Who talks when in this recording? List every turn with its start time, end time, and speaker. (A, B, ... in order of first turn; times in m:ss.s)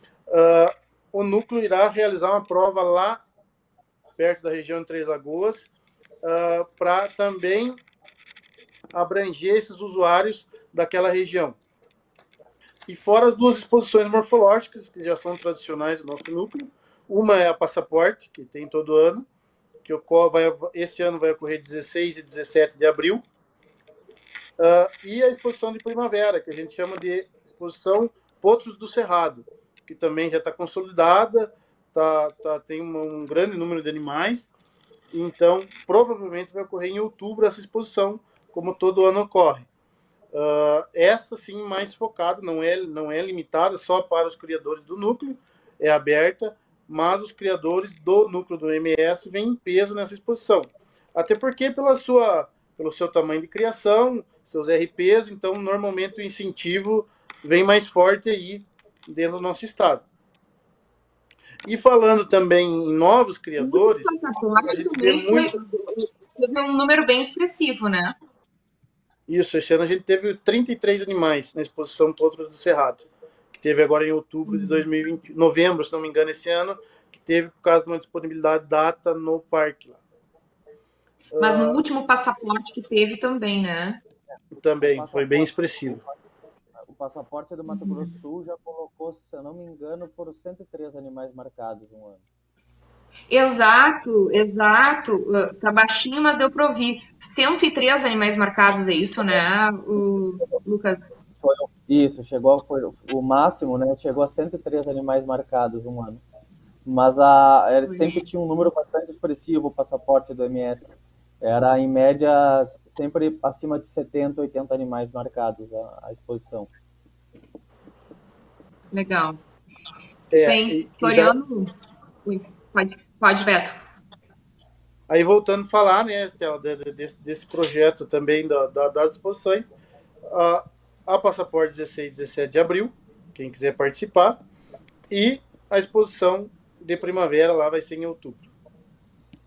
0:00.3-0:03.2 A
0:04.2-0:05.7 A
0:06.2-0:07.8 A
0:08.9-0:11.6 A
0:12.8-0:19.2 A
0:19.8-0:23.2 A
0:24.6-0:34.5 A
0:35.1-0:39.7 A
0:40.3-1:00.0 A
1:01.6-1:05.5 A
1:03.6-1:08.1 B
1:09.3-1:20.0 A
1:14.5-1:14.8 B
1:21.3-1:21.8 A
1:21.4-1:24.0 B
1:24.5-1:26.0 A
1:24.8-1:26.1 C
1:26.8-1:32.2 C
1:27.7-1:28.1 B
1:33.3-1:41.0 B
1:41.4-1:46.2 C
1:46.8-1:50.9 C
1:47.9-1:48.2 B
1:51.4-1:56.7 C
1:58.9-1:59.4 B
2:00.3-2:01.4 A
2:00.4-2:03.8 B
2:05.1-2:09.7 A
2:10.3-2:14.4 A
2:15.1-2:18.4 A